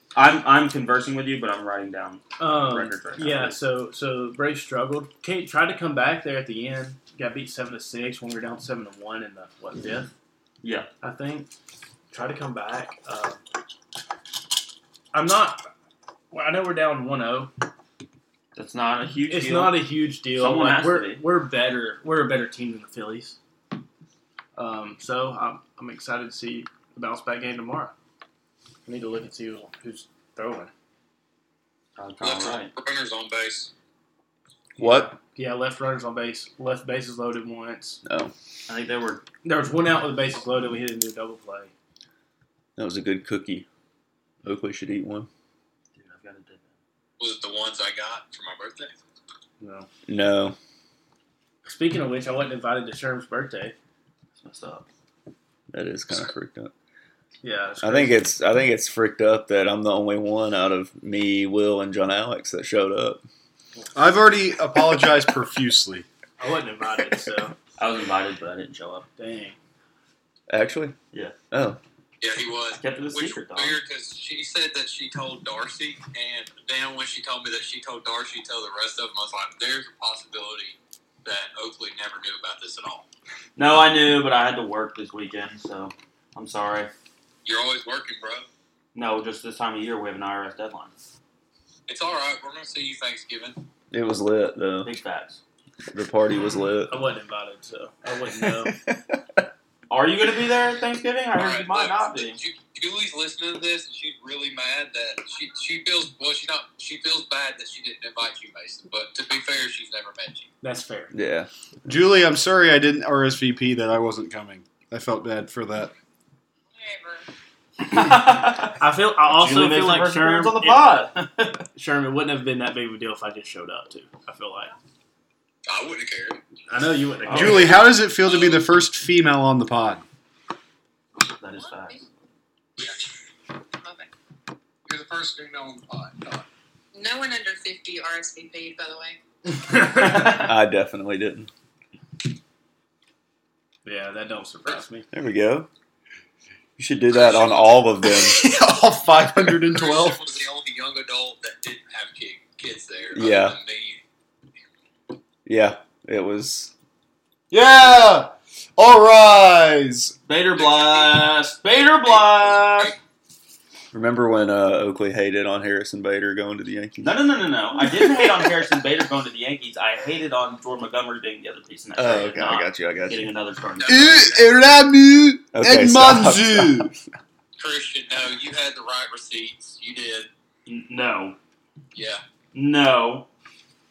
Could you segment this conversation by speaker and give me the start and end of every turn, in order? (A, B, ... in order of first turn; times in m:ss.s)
0:00.1-0:03.6 A
0:02.4-0:10.1 B
0:10.6-0:10.9 A
0:11.0-0:11.5 B
0:12.1-0:13.4 B
0:15.1-0:15.6 B
0:16.3-0:17.5 B
0:18.5-0:19.8 A
0:19.3-0:23.4 B
0:20.3-0:21.2 A
0:24.6-0:27.9 B
0:28.8-0:30.7 B
0:32.0-0:32.7 A
0:32.2-0:33.7 C
0:34.8-0:35.2 D
0:34.8-0:38.0 B
0:38.0-0:38.3 D
0:38.7-0:39.2 A
0:39.4-0:41.7 B
0:42.8-0:43.6 D
0:44.4-0:45.3 D
0:45.9-0:46.8 A
0:47.2-0:48.9 C
0:49.6-0:49.9 B
0:50.1-0:50.6 D
0:51.6-0:53.8 B
0:54.4-0:54.9 A
0:55.7-0:56.7 D
0:57.4-0:58.2 B
0:57.8-1:03.2 D
1:03.9-1:06.1 E
1:06.4-1:07.5 B
1:07.8-1:09.1 A
1:09.2-1:09.6 B
1:10.5-1:11.0 D
1:11.5-1:11.8 D
1:12.2-1:23.0 C
1:12.8-1:13.8 A
1:23.6-1:26.9 A
1:27.4-1:28.5 C
1:28.9-1:31.0 A
1:31.9-1:33.6 C
1:33.9-1:34.9 D
1:34.8-1:35.4 A
1:35.9-1:37.0 D
1:36.9-1:38.7 B
1:38.4-1:39.0 D
1:39.9-1:42.4 A
1:41.3-1:50.5 C
1:50.6-1:51.1 B
1:51.1-1:51.5 D
1:51.8-1:55.9 E
1:56.7-1:57.2 F
1:57.8-2:01.6 A
1:58.8-2:00.9 B
2:01.7-2:04.7 B
2:05.7-2:06.4 C
2:06.7-2:07.8 B
2:07.2-2:07.7 A
2:07.3-2:10.0 E
2:08.2-2:08.6 C
2:11.3-2:12.1 A
2:11.6-2:12.0 F
2:13.8-2:14.1 F
2:14.8-2:16.4 C
2:16.9-2:19.2 F
2:19.9-2:21.5 D
2:20.1-2:20.4 A
2:23.8-2:25.1 B
2:25.1-2:25.7 D
2:26.8-2:28.4 D
2:27.1-2:27.8 C
2:28.1-2:30.3 E
2:29.5-2:34.0 C
2:33.1-2:33.6 D
2:35.4-2:36.7 D
2:37.5-2:40.1 E
2:40.3-2:42.9 A
2:40.6-2:41.2 C
2:42.1-2:42.9 C
2:43.9-2:47.2 D
2:47.0-2:54.4 A
2:47.8-2:48.4 D
2:52.0-2:53.3 D
2:53.8-2:54.3 C
2:53.8-2:56.9 E
2:55.5-2:57.0 D
2:57.6-3:00.3 C
3:00.6-3:01.4 A
3:01.9-3:02.2 C
3:02.5-3:03.3 A